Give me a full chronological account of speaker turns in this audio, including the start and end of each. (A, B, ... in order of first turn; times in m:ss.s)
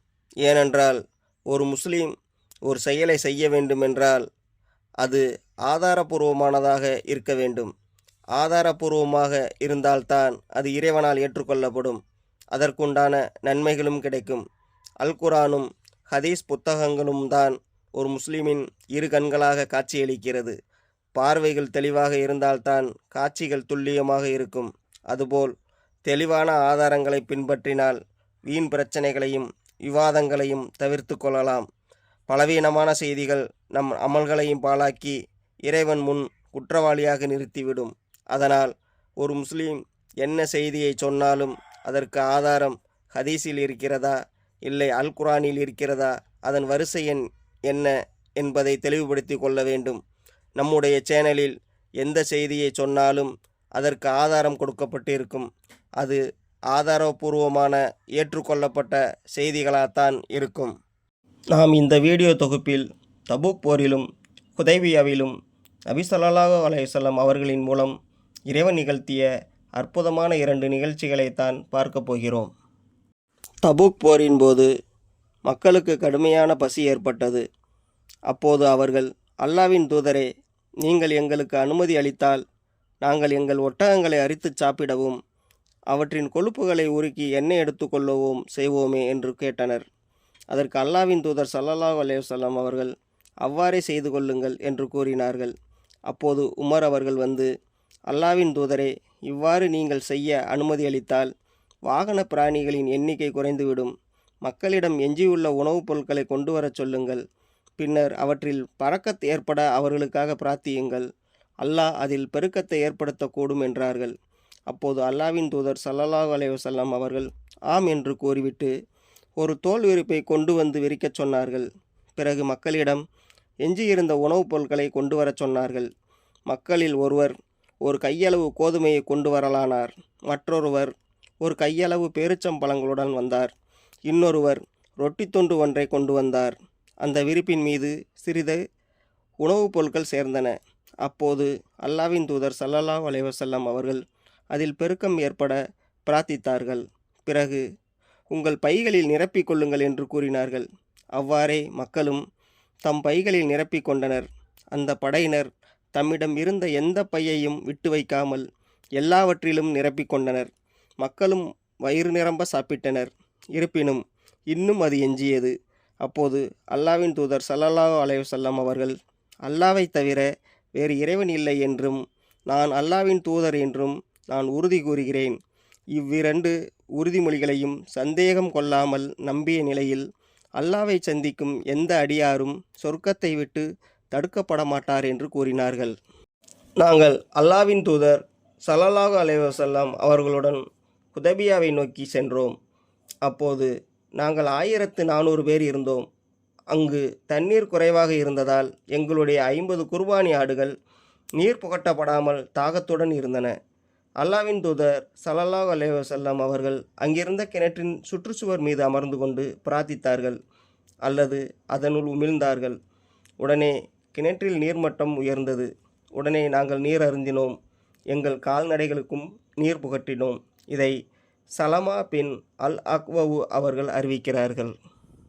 0:00.4-0:02.1 A
0:02.6-0:04.2 A
0:05.0-0:07.7 A
0:08.4-0:12.0 A
0:12.5-0:14.4 A
0:15.0-0:20.6 A
0:21.1-0:25.5 A
0:26.0-0:31.6 A
0:32.3-0:50.0 A
0:50.6-0:55.5 A
0:56.7-1:00.7 A
1:01.5-1:05.3 A
1:05.9-1:07.9 A
1:08.5-1:12.5 A
1:13.6-1:14.7 A
1:15.5-1:17.4 A
1:18.3-1:20.3 A
1:20.8-1:22.4 A
1:23.0-1:25.2 A
1:25.9-1:29.8 A
1:30.5-1:32.9 A
1:33.4-1:35.5 A
1:36.1-1:37.5 A
1:38.1-1:41.3 A
1:41.9-1:43.9 A
1:44.4-1:47.2 A
1:47.8-1:51.0 A
1:51.6-1:54.1 A
1:54.7-1:58.7 A
1:59.4-2:03.0 A
2:03.6-2:05.9 A
2:06.5-2:13.5 A
2:14.1-2:18.6 A
2:19.4-2:24.0 A
2:24.5-2:27.6 A
2:28.3-2:32.2 A
2:32.8-2:38.4 A
2:39.0-2:40.5 A
2:41.0-2:48.9 A
2:49.4-2:55.4 A
2:55.9-3:00.0 A
3:00.6-3:05.9 A
3:06.8-3:10.6 A
3:11.1-3:12.5 A
3:13.2-3:16.0 A
3:16.7-3:20.7 A
3:21.4-3:23.5 A
3:24.2-3:30.4 A
3:31.0-3:32.8 A
3:33.4-3:37.5 A
3:38.1-3:40.9 A
3:41.6-3:44.7 A